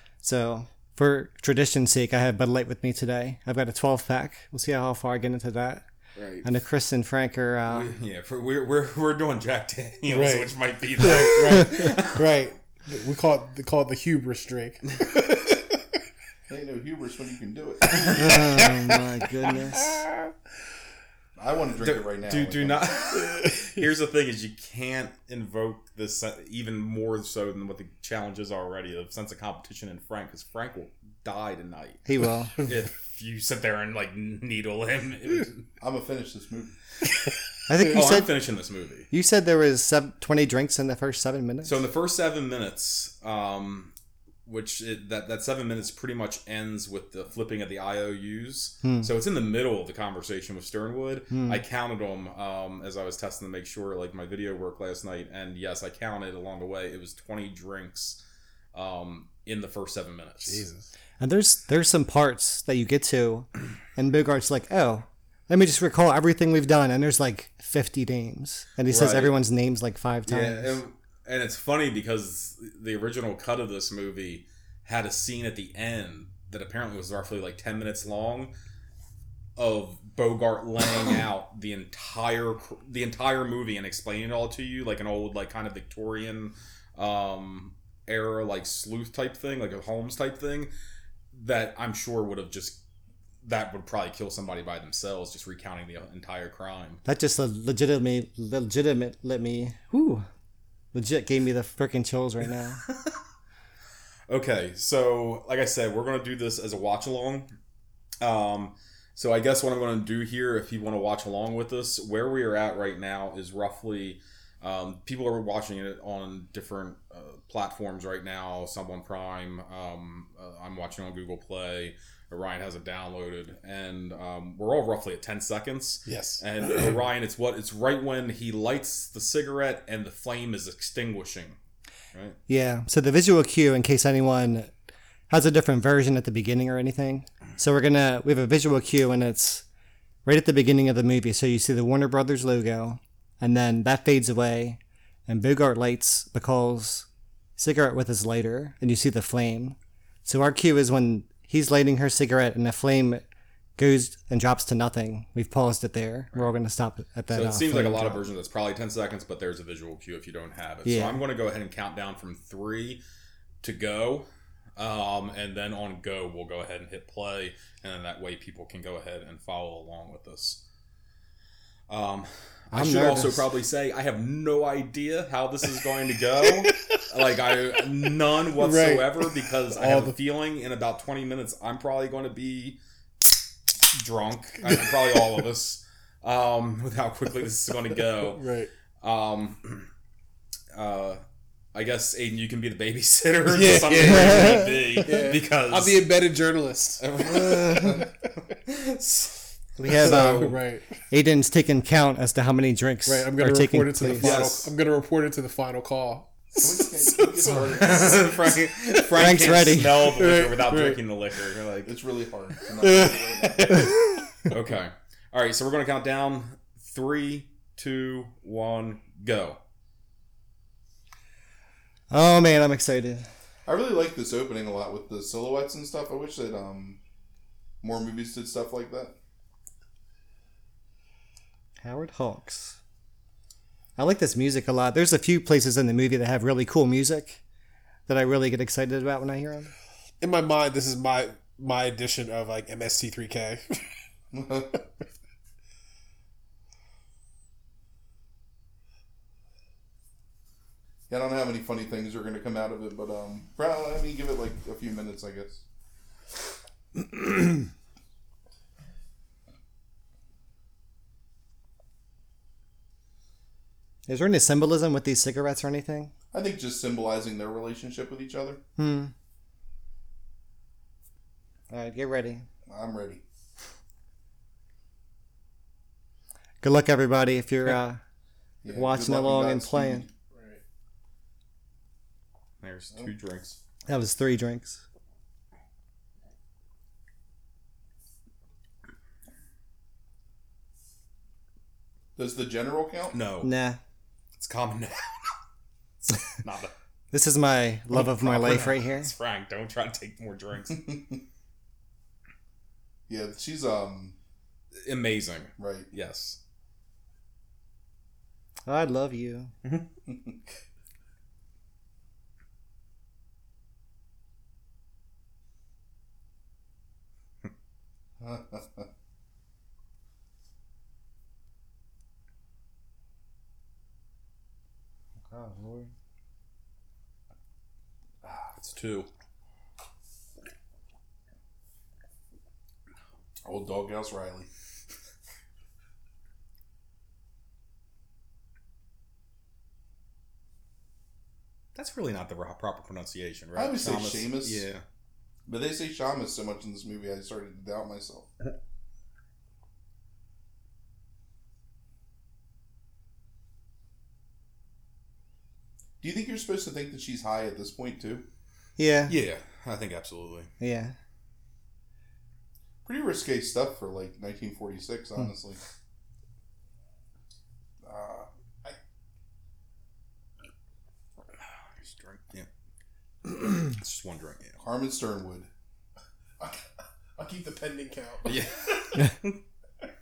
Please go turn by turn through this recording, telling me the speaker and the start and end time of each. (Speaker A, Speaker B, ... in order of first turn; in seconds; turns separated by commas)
Speaker A: 0.2-5.8, Speaker B: 6.2-6.4, Speaker A: 6.4-7.9, Speaker B: 7.7-12.3, Speaker C: 10.1-15.8, Speaker D: 16.5-18.3, Speaker C: 17.9-20.1, Speaker A: 18.1-19.9, Speaker D: 21.4-22.9, Speaker B: 21.8-32.0, Speaker C: 23.3-23.8, Speaker A: 32.1-32.5, Speaker B: 32.6-35.6, Speaker D: 35.8-36.8, Speaker A: 37.7-38.4, Speaker B: 37.9-39.1, Speaker A: 39.1-41.8, Speaker B: 41.6-43.9, Speaker B: 44.5-58.2, Speaker A: 48.8-49.1, Speaker A: 51.3-51.6, Speaker B: 58.7-60.6, Speaker C: 60.5-60.9, Speaker A: 61.2-70.8, Speaker B: 68.9-69.3, Speaker B: 70.3-78.5, Speaker B: 79.6-90.7, Speaker B: 91.3-92.8, Speaker B: 93.4-97.0, Speaker A: 97.0-100.3, Speaker A: 100.9-102.8, Speaker B: 104.3-107.5, Speaker B: 108.2-131.6, Speaker C: 126.1-126.9, Speaker A: 132.5-134.7, Speaker A: 135.3-139.7, Speaker A: 140.2-147.1, Speaker A: 147.6-153.2, Speaker A: 153.8-158.2, Speaker B: 157.3-163.0, Speaker A: 160.8-161.2, Speaker B: 163.6-170.6, Speaker B: 171.9-182.8, Speaker A: 172.7-173.5, Speaker C: 176.5-177.0, Speaker C: 178.5-180.2, Speaker B: 183.9-188.4, Speaker C: 188.3-188.7, Speaker B: 189.0-189.9, Speaker B: 190.7-191.2, Speaker B: 191.7-196.0, Speaker C: 193.5-198.1, Speaker B: 197.0-200.6, Speaker A: 199.8-204.5, Speaker C: 199.9-200.9, Speaker C: 203.1-209.3, Speaker B: 204.2-204.7, Speaker D: 206.6-208.5, Speaker B: 207.7-211.9, Speaker A: 209.1-210.1, Speaker C: 210.0-211.0, Speaker D: 211.8-213.9, Speaker C: 212.8-214.5, Speaker B: 214.5-219.6, Speaker A: 222.1-223.3, Speaker D: 223.7-227.0, Speaker D: 227.8-229.2, Speaker A: 231.8-232.8, Speaker A: 234.0-237.4, Speaker A: 238.1-239.7, Speaker C: 240.2-243.9, Speaker D: 244.3-244.8, Speaker D: 251.1-255.6, Speaker A: 264.1-266.1, Speaker D: 266.3-268.6, Speaker A: 268.8-269.1, Speaker A: 271.7-272.5, Speaker D: 272.7-273.2, Speaker A: 276.6-278.0, Speaker D: 278.6-280.1, Speaker A: 278.7-280.1, Speaker C: 280.3-280.6, Speaker B: 282.6-283.6, Speaker A: 283.9-284.8, Speaker D: 292.2-293.2, Speaker B: 293.1-293.5, Speaker A: 293.4-293.8, Speaker B: 294.4-295.3, Speaker B: 296.1-296.7, Speaker A: 297.1-299.1, Speaker B: 298.0-301.0, Speaker D: 300.7-301.2, Speaker D: 303.1-304.2, Speaker B: 304.8-306.4, Speaker D: 305.6-305.9, Speaker A: 308.7-309.5, Speaker D: 310.1-310.4, Speaker D: 318.2-318.9, Speaker A: 325.3-325.9, Speaker B: 328.2-329.1, Speaker D: 333.4-334.5, Speaker B: 341.8-344.8, Speaker D: 343.6-344.7, Speaker D: 345.5-348.3, Speaker D: 356.0-358.3, Speaker A: 358.8-359.1, Speaker B: 359.1-360.5, Speaker A: 360.6-360.9, Speaker D: 362.9-365.6, Speaker D: 367.8-368.3, Speaker B: 371.8-372.5, Speaker B: 373.2-374.6, Speaker D: 374.6-375.5, Speaker C: 377.2-378.9, Speaker B: 378.2-379.4